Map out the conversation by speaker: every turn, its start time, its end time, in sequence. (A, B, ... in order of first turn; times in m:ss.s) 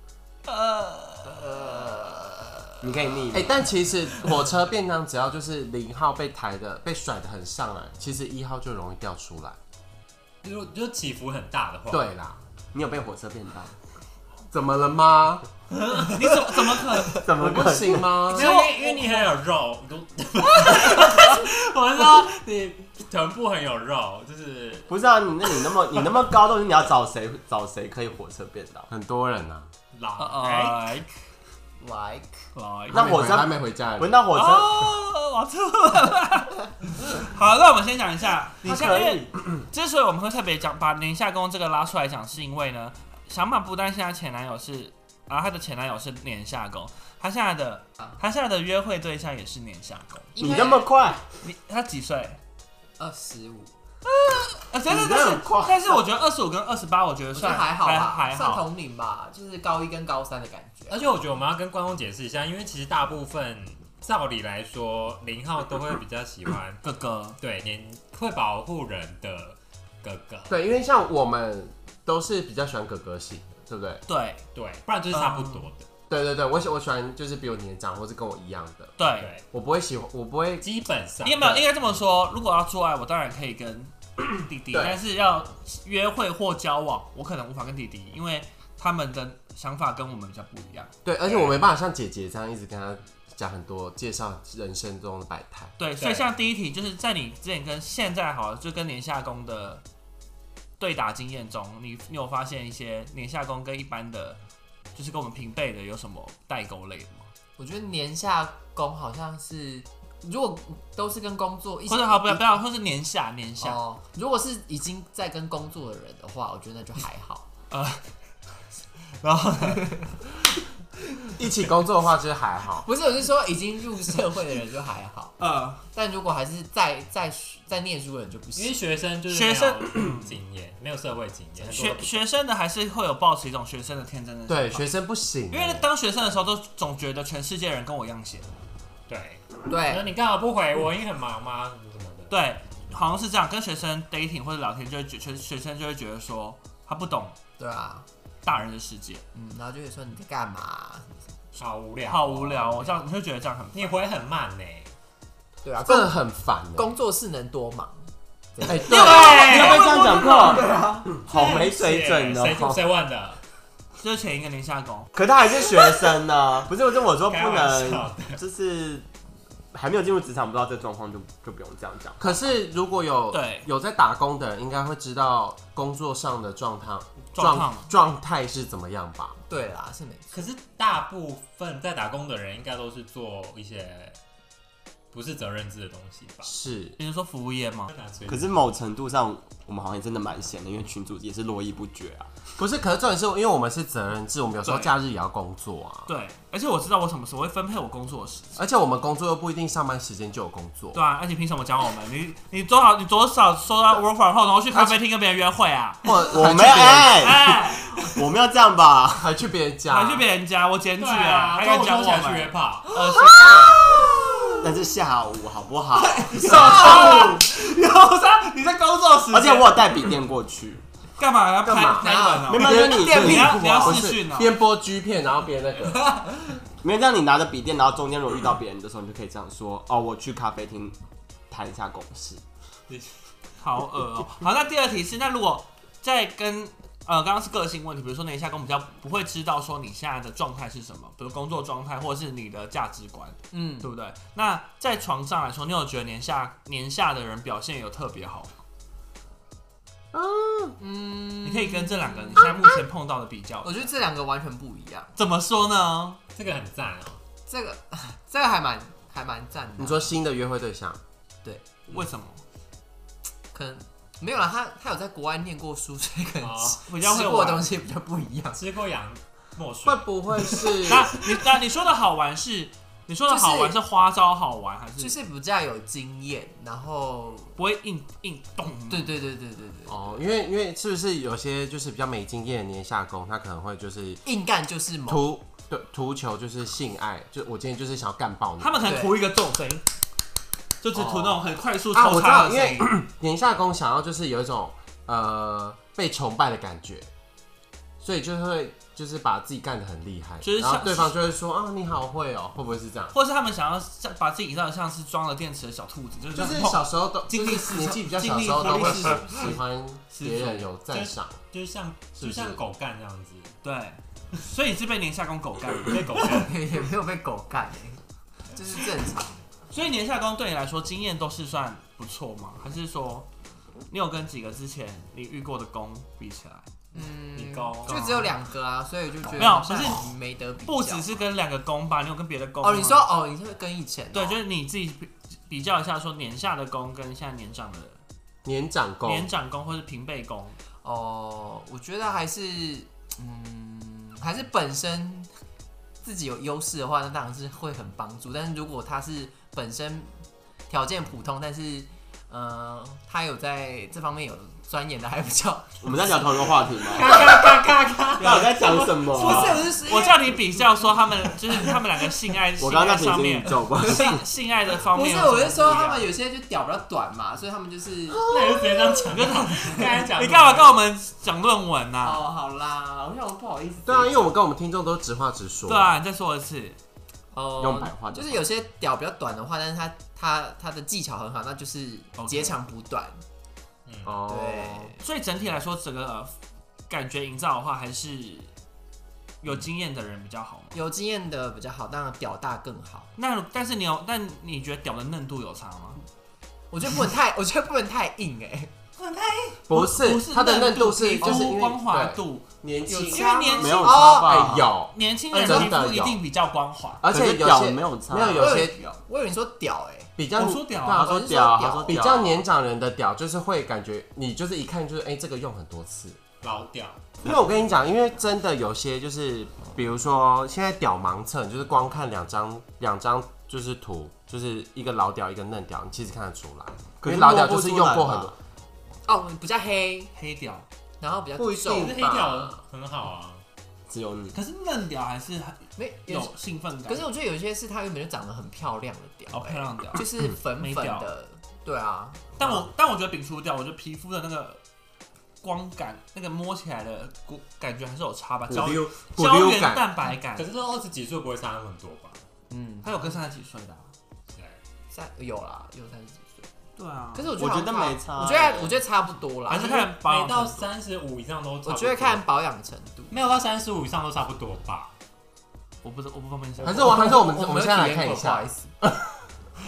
0:00.4-0:02.7 A
0:01.3-0:02.0 B
0:02.8-0:03.6 C
0:03.3-0:09.6 D
0:10.4-0:12.0 E
0:11.9-0:12.4 D
0:12.7-0:13.7 C
0:14.5-0:15.4 D
0:15.7-0:16.1 E
0:16.0-0:17.3 A
0:17.2-0:18.1 C
0:17.4-0:18.5 D
0:18.3-0:19.3 A
0:18.3-0:24.9 E
0:20.6-0:21.3 A
0:24.9-0:28.9 C
0:28.9-0:29.7 D
0:29.9-0:30.9 E
0:30.2-0:31.1 A
0:31.8-0:32.4 B
0:32.5-0:33.3 A
0:32.9-0:34.2 D
0:32.9-0:34.9 C
0:34.3-0:50.3 A
0:38.6-0:39.6 C
0:50.3-0:50.9 B
0:50.4-0:51.2 C
0:51.4-0:52.4 A
0:53.0-0:53.7 B
0:54.1-0:58.6 A
0:54.8-0:56.0 C
0:57.3-1:01.0 B
1:00.9-1:06.8 E
1:06.8-1:07.4 A
1:07.4-1:10.5 E
1:10.5-1:14.0 D
1:14.1-1:14.4 A
1:14.5-1:15.9 E
1:15.1-1:15.7 A
1:16.1-1:18.9 D
1:19.0-1:19.3 A
1:19.5-1:20.6 D
1:20.6-1:21.6 E
1:21.2-1:30.9 A
1:24.7-1:25.0 D
1:31.0-1:35.7 D
1:31.2-1:31.6 E
1:35.8-1:39.8 A
1:36.0-1:36.2 E
1:40.8-1:44.4 A
1:44.9-1:47.3 A
1:47.6-1:52.4 B
1:51.9-1:53.8 A
1:53.6-1:57.4 B
1:57.7-1:58.0 A
1:59.2-2:00.3 A
2:01.4-2:02.9 D
2:02.8-2:05.3 B
2:05.4-2:05.8 A
2:05.9-2:08.8 B
2:08.6-2:12.2 E
2:09.3-2:10.3 A
2:11.6-2:14.9 A
2:14.5-2:15.8 D
2:15.5-2:18.5 A
2:19.1-2:22.3 E
2:19.7-2:20.1 B
2:22.3-2:27.4 A
2:27.6-2:28.0 B
2:28.4-2:29.2 A
2:29.3-2:31.2 B
2:31.6-2:33.0 E
2:32.1-2:33.9 A
2:33.7-2:34.9 E
2:35.6-2:36.1 B
2:35.8-2:36.9 D
2:36.7-2:39.2 B
2:38.6-2:39.5 D
2:38.6-2:40.6 E
2:38.8-2:40.6 A
2:38.9-2:42.8 C
2:41.2-2:43.4 E
2:44.0-2:45.1 A
2:45.1-2:49.1 C
2:47.2-2:48.4 E
2:49.7-2:52.4 C
2:52.2-2:59.4 D
2:53.3-2:53.7 A
2:57.3-2:57.9 A
2:59.5-3:00.4 B
3:00.3-3:04.2 E
3:05.1-3:06.5 E
3:06.4-3:07.0 D
3:07.0-3:07.9 A
3:07.9-3:08.5 E
3:08.3-3:12.3 C
3:12.6-3:16.1 D
3:14.6-3:14.9 A
3:16.0-3:18.6 A
3:18.6-3:21.0 D
3:20.9-3:26.3 A
3:24.7-3:25.0 D
3:26.0-3:27.3 D
3:26.3-3:29.3 C
3:27.0-3:28.2 A
3:29.2-3:30.2 D
3:29.9-3:33.8 A
3:31.0-3:32.9 E
3:33.3-3:33.7 B
3:34.6-3:37.1 C
3:36.2-3:39.9 A
3:36.4-3:37.5 B
3:39.3-3:40.8 C
3:41.2-3:44.5 A
3:41.6-3:46.1 D
3:42.0-3:43.9 B
3:42.4-3:43.9 C
3:46.0-3:46.3 B
3:46.8-3:51.0 C
3:51.5-3:52.4 C
3:53.6-4:08.5 A
4:03.5-4:03.9 B
4:10.1-4:10.8 D
4:10.8-4:12.7 B
4:11.4-4:13.8 A
4:13.6-4:15.1 B
4:15.2-4:16.2 A
4:16.3-4:17.2 E
4:17.5-4:20.1 B
4:19.8-4:21.0 D
4:21.9-4:22.4 A
4:23.5-4:28.6 B
4:26.4-4:26.8 E
4:26.9-4:27.6 A
4:28.5-4:30.1 E
4:29.8-4:31.2 D
4:30.8-4:35.1 A
4:33.3-4:33.7 B
4:35.0-4:37.6 B
4:37.6-4:39.2 A
4:38.9-4:40.2 B
4:39.9-4:44.2 D
4:44.2-4:45.2 B
4:45.1-4:49.0 D
4:48.6-4:49.8 A
4:48.8-4:49.2 B
4:50.8-4:52.9 A
4:50.9-4:51.4 B
4:51.9-4:57.1 D
4:58.0-5:03.1 D
5:00.4-5:01.1 A
5:03.1-5:09.6 A
5:06.3-5:11.4 D
5:08.4-5:09.2 B
5:10.1-5:10.7 A
5:10.9-5:13.5 E
5:12.2-5:12.6 D
5:13.6-5:16.2 A
5:15.7-5:16.6 E
5:16.2-5:18.0 B
5:18.5-5:19.4 B
5:19.7-5:23.3 A
5:23.9-5:26.7 A
5:26.9-5:31.2 B
5:27.3-5:28.0 E
5:27.8-5:28.3 A
5:29.3-5:33.1 A
5:32.6-5:34.4 B
5:34.1-5:38.0 A
5:38.4-5:39.3 D
5:39.0-5:40.6 A
5:40.8-5:45.3 B
5:46.0-5:50.2 B
5:50.7-5:56.5 B
5:55.8-5:57.4 C
5:56.8-5:59.6 E
5:58.2-5:59.7 C
5:59.1-6:00.4 B
5:59.4-6:06.1 A
6:02.6-6:04.2 C
6:03.8-6:04.2 B
6:04.8-6:08.2 B
6:08.2-6:10.8 E
6:09.1-6:12.2 A
6:12.0-6:14.3 B
6:13.8-6:16.0 D
6:15.7-6:16.8 A
6:17.3-6:23.2 B
6:17.6-6:18.4 C
6:22.2-6:22.6 A
6:23.8-6:24.1 E
6:24.0-6:24.9 D
6:24.3-6:25.0 B
6:25.0-6:26.3 A
6:26.9-6:28.5 A
6:29.4-6:30.8 A
6:30.7-6:33.1 B
6:33.2-6:36.0 A
6:36.7-6:38.7 B
6:39.0-6:39.6 E
6:39.7-6:44.2 A
6:39.7-6:46.2 D
6:42.9-6:44.7 B
6:43.5-6:44.7 C
6:44.8-6:47.0 A
6:45.3-6:45.7 B
6:47.0-6:48.8 D
6:47.1-6:49.0 C
6:48.3-6:50.1 B
6:50.2-6:51.1 D
6:50.3-6:51.1 A
6:50.8-6:52.2 B
6:50.9-6:52.4 C
6:51.8-6:56.2 D
6:56.4-6:57.0 E
6:57.2-7:08.3 D
7:07.0-7:08.3 C
7:09.0-7:10.1 B
7:10.2-7:10.6 A
7:11.0-7:12.0 B
7:11.4-7:12.6 D
7:11.6-7:13.4 E
7:13.9-7:14.4 C
7:14.3-7:17.0 A
7:15.8-7:22.6 B
7:19.3-7:21.1 A
7:22.4-7:24.6 A
7:25.4-7:30.5 A
7:28.5-7:29.9 D
7:30.3-7:32.2 E
7:32.5-7:33.2 B
7:32.8-7:33.9 A
7:34.3-7:34.6 E
7:34.9-7:36.5 B
7:36.8-7:37.3 A
7:37.1-7:39.9 B
7:37.3-7:38.8 C
7:39.5-7:40.7 A
7:39.9-7:42.2 E
7:41.6-7:43.1 B
7:43.1-7:44.9 E
7:45.8-7:47.2 A
7:46.6-7:49.2 D
7:46.6-7:48.7 B